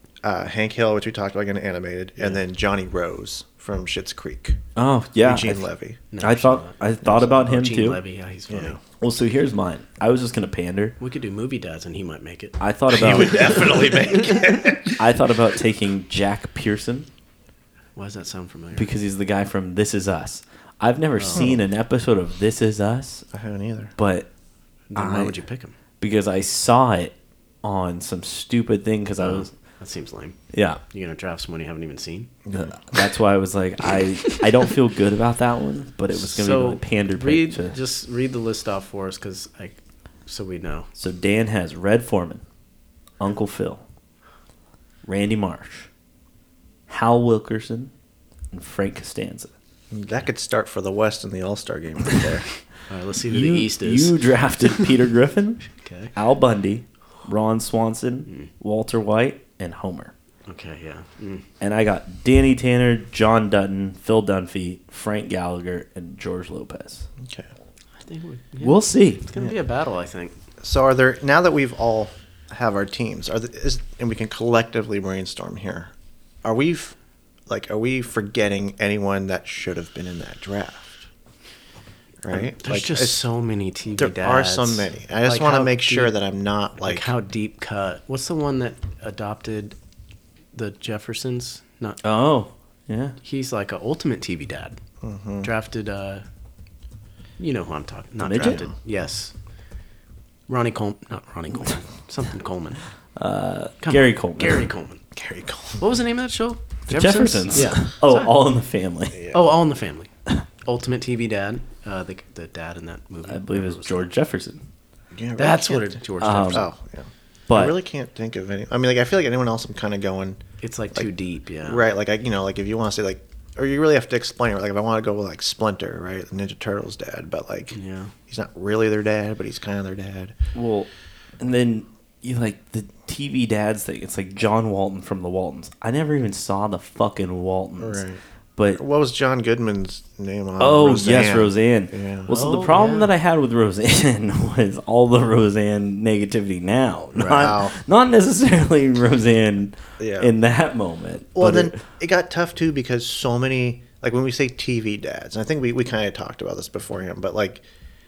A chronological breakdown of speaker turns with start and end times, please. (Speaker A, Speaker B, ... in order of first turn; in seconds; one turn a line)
Speaker A: 0.2-4.6
Speaker B: 4.8-5.6
Speaker A: 5.2-6.0
Speaker C: 6.1-8.8
Speaker B: 6.2-8.0
Speaker A: 7.0-7.4
Speaker A: 8.5-8.8
Speaker B: 9.0-10.9
Speaker C: 11.0-14.4
Speaker B: 12.6-13.8
Speaker A: 12.9-15.0
Speaker B: 15.0-17.1
Speaker C: 18.0-18.9
Speaker B: 18.8-23.3
Speaker C: 21.2-21.5
Speaker A: 21.3-21.6
Speaker A: 23.3-23.9
Speaker B: 24.0-24.3
Speaker C: 24.9-25.8
Speaker B: 25.0-25.4
Speaker B: 26.0-29.5
Speaker C: 29.2-30.4
Speaker B: 30.5-30.8
Speaker C: 30.9-32.3
Speaker A: 32.5-32.8
Speaker B: 32.8-37.8
Speaker C: 36.1-40.9
Speaker B: 41.0-42.4
Speaker B: 43.2-43.8
Speaker B: 45.0-45.9
Speaker B: 46.9-47.9
Speaker B: 48.5-49.5
Speaker A: 49.9-52.5
Speaker C: 52.9-54.9
Speaker B: 53.2-60.1
Speaker C: 55.8-56.1
Speaker C: 60.5-61.5
Speaker B: 61.6-67.1
Speaker A: 67.2-67.5
Speaker C: 68.0-70.3
Speaker B: 68.6-69.3
Speaker A: 70.6-75.9
Speaker A: 76.4-77.0
Speaker A: 77.5-81.1
Speaker A: 82.2-83.2
Speaker C: 82.3-86.1
Speaker A: 84.0-87.1
Speaker C: 86.8-89.8
Speaker C: 90.5-92.0
Speaker B: 92.0-93.2
Speaker C: 93.2-94.8
Speaker A: 95.0-95.5
Speaker C: 95.4-96.2
Speaker C: 97.4-99.3
Speaker B: 98.2-98.6
Speaker A: 98.4-98.7
Speaker C: 100.5-102.8
Speaker B: 103.2-104.7
Speaker C: 103.8-105.0
Speaker A: 105.2-105.9
Speaker C: 105.8-108.3
Speaker B: 106.9-109.3
Speaker A: 109.1-109.4
Speaker C: 109.3-110.1
Speaker C: 110.6-114.1
Speaker B: 113.3-114.6
Speaker A: 115.2-115.9
Speaker C: 115.4-116.7
Speaker B: 116.2-116.7
Speaker A: 116.5-120.4
Speaker B: 117.5-117.8
Speaker C: 120.6-121.9
Speaker A: 121.6-127.8
Speaker C: 127.7-128.1
Speaker A: 128.3-130.3
Speaker B: 130.6-130.9
Speaker B: 131.4-138.0
Speaker A: 137.8-138.2
Speaker A: 138.8-142.5
Speaker B: 140.6-151.8
Speaker C: 142.3-143.1
Speaker A: 147.2-147.8
Speaker A: 150.0-150.3
Speaker A: 151.4-157.6